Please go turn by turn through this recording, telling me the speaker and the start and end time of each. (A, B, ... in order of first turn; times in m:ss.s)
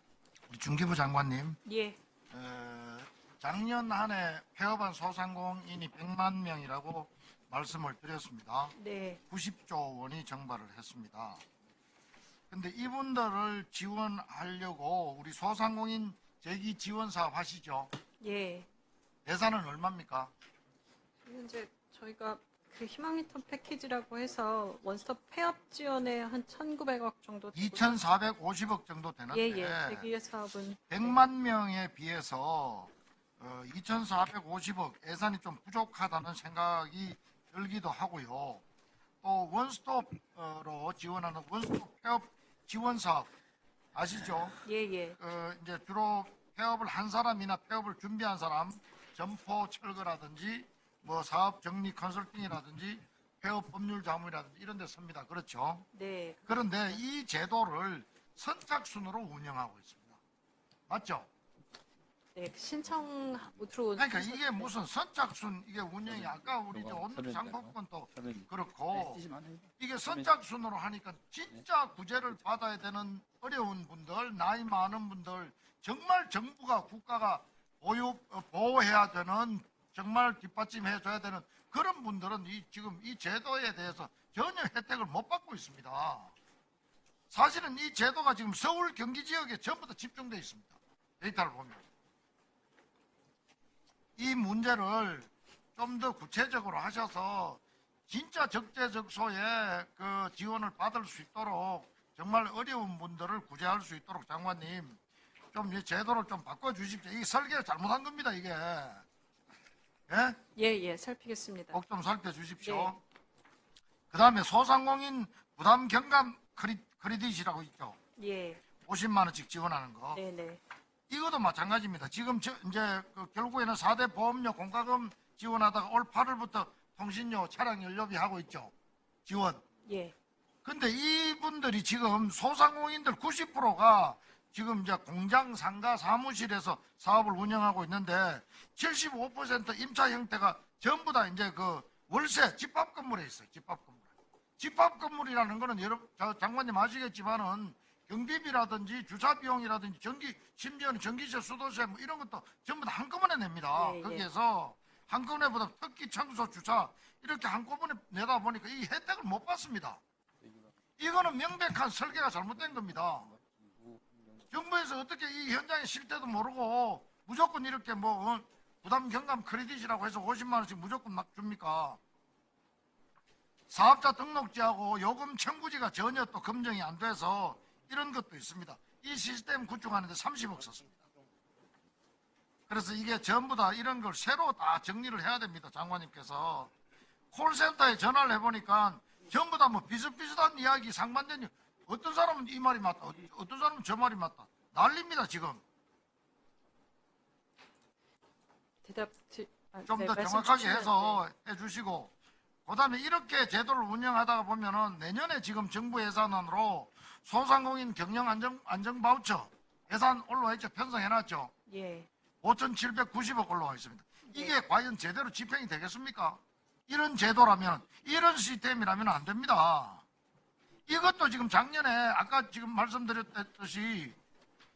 0:00.5-0:01.6 A
0:01.6-0:02.0 B
0:02.3-0:08.7 A
0:08.8-0:09.2 B
0:09.3-0:11.4 A
0:12.5-0:17.9 A
0:18.2-0:18.7 B
0:19.2-0:20.3 A
0:21.2-0:28.0 B
0:27.5-0:30.1 A
0:29.3-0:31.2 B
0:30.9-0:38.6 A
0:39.2-0:43.3 A
0:43.9-0:44.6 A
0:44.6-0:45.2 B
0:45.2-0:55.8 A
0:55.9-0:57.0 B
0:56.5-1:00.2 A
1:00.9-1:01.3 A
1:02.3-1:04.7 B
1:04.0-1:09.2 A
1:06.0-1:10.3 C
1:09.8-1:26.3 A
1:27.3-1:31.8 A
1:34.2-1:45.0 A
1:45.5-1:49.0 A
1:50.1-1:50.4 A
1:50.6-1:51.8 B
1:51.7-1:53.0 A
1:52.6-1:53.0 B
1:54.1-1:58.0 A
1:58.2-1:58.6 B
1:58.9-2:00.2 A
2:00.1-2:00.6 B
2:01.1-2:08.7 A
2:09.2-2:09.6 A
2:09.8-2:10.1 B
2:10.6-2:24.1 A
2:24.6-2:40.0 A
2:33.7-2:34.3 B
2:40.4-2:40.7 C
2:41.0-2:43.3 A
2:42.4-2:44.5 C
2:44.5-2:52.0 A
2:53.7-3:01.0 A
3:02.7-3:06.7 A
3:07.3-3:15.6 A
3:18.8-3:21.2 B
3:19.8-3:22.1 A
3:22.6-3:31.5 A
3:31.7-3:32.1 B
3:32.4-3:40.0 A
3:34.3-3:34.5 B
3:40.9-3:44.1 A